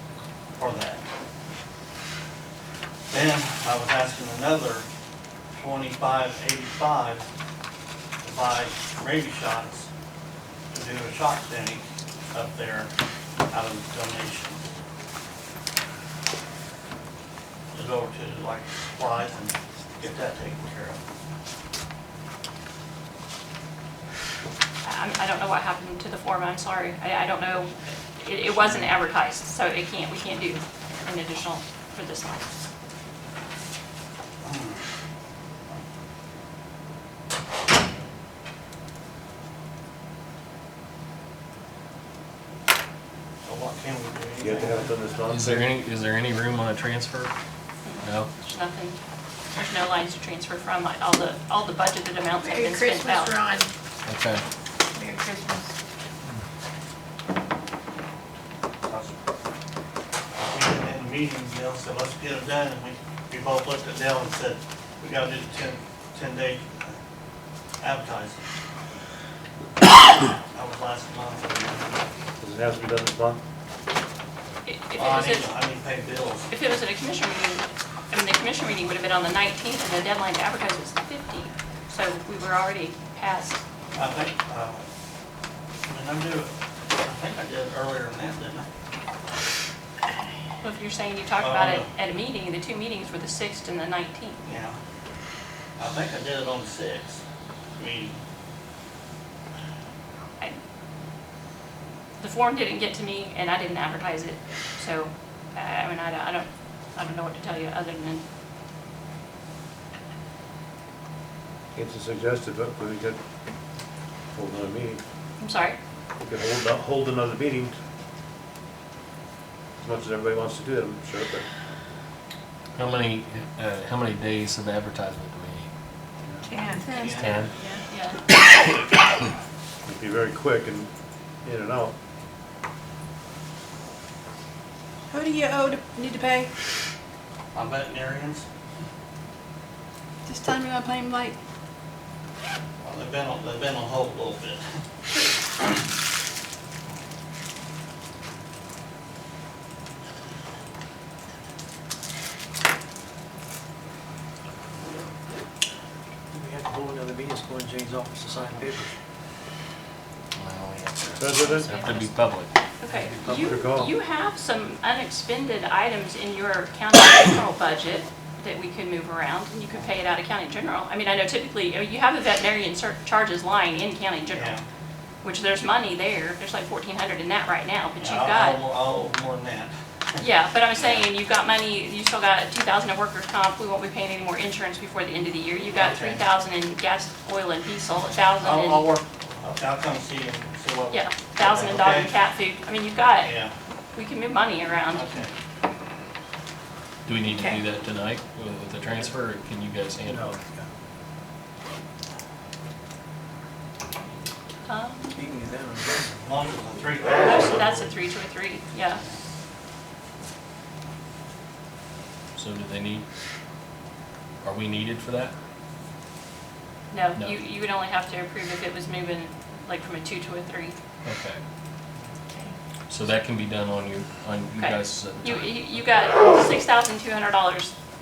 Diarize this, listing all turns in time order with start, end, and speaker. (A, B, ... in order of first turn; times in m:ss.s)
0:00.6-0:01.0 A
0:03.1-0:04.9 A
0:05.5-0:07.2 A
0:08.2-0:09.9 A
0:10.7-0:12.9 A
0:13.5-0:14.7 A
0:17.7-0:21.0 A
0:24.8-0:32.6 B
0:34.4-0:34.8 A
0:43.4-0:45.0 A
0:44.4-0:45.7 C
0:45.3-0:47.3 D
0:47.8-0:49.0 B
0:48.0-0:48.3 D
0:49.5-0:53.3 B
0:52.4-0:53.7 E
0:54.0-0:54.4 D
0:54.9-0:55.7 E
0:58.8-0:59.2 A
1:00.4-1:07.0 A
1:07.8-1:08.5 A
1:10.5-1:12.0 A
1:12.4-1:13.4 C
1:14.6-1:15.5 B
1:15.0-1:16.5 A
1:16.5-1:23.6 B
1:23.9-1:24.8 A
1:25.9-1:28.7 A
1:30.6-1:34.4 B
1:31.4-1:31.9 A
1:34.4-1:34.8 A
1:35.8-1:37.2 A
1:37.8-1:38.2 A
1:42.2-1:48.2 B
1:51.7-1:53.2 C
1:54.3-1:55.0 C
1:55.4-1:55.8 B
1:56.2-1:57.8 C
1:59.8-2:01.5 C
2:02.8-2:05.7 D
2:06.4-2:06.9 E
2:06.8-2:07.8 F
2:06.9-2:07.4 A
2:07.1-2:07.5 D
2:07.6-2:08.2 B
2:09.8-2:10.9 C
2:11.4-2:11.9 C
2:15.1-2:16.5 F
2:17.5-2:18.4 A
2:20.3-2:21.4 F
2:22.8-2:24.6 A
2:36.3-2:38.9 G
2:40.3-2:42.5 D
2:41.2-2:41.7 C
2:41.5-2:42.2 B
2:42.8-2:54.5 B
2:43.2-2:43.9 C
2:54.3-2:54.6 A
2:55.2-2:58.6 B
2:58.0-2:59.7 A
3:00.2-3:08.9 B
3:00.8-3:01.1 A
3:05.7-3:06.2 A
3:08.4-3:12.1 A
3:10.9-3:13.4 B
3:13.2-3:13.5 A
3:13.9-3:15.1 B
3:14.9-3:15.3 A
3:17.0-3:20.3 D
3:17.3-3:17.6 E
3:20.0-3:20.6 C
3:24.6-3:25.2 B
3:25.1-3:26.1 G
3:26.2-3:27.9 A
3:27.2-3:29.0 B
3:32.4-3:33.0 D
3:34.4-3:35.3 D
3:36.9-3:40.8 B
3:41.0-3:41.4 D
3:42.9-3:45.6 D
3:44.6-3:47.7 B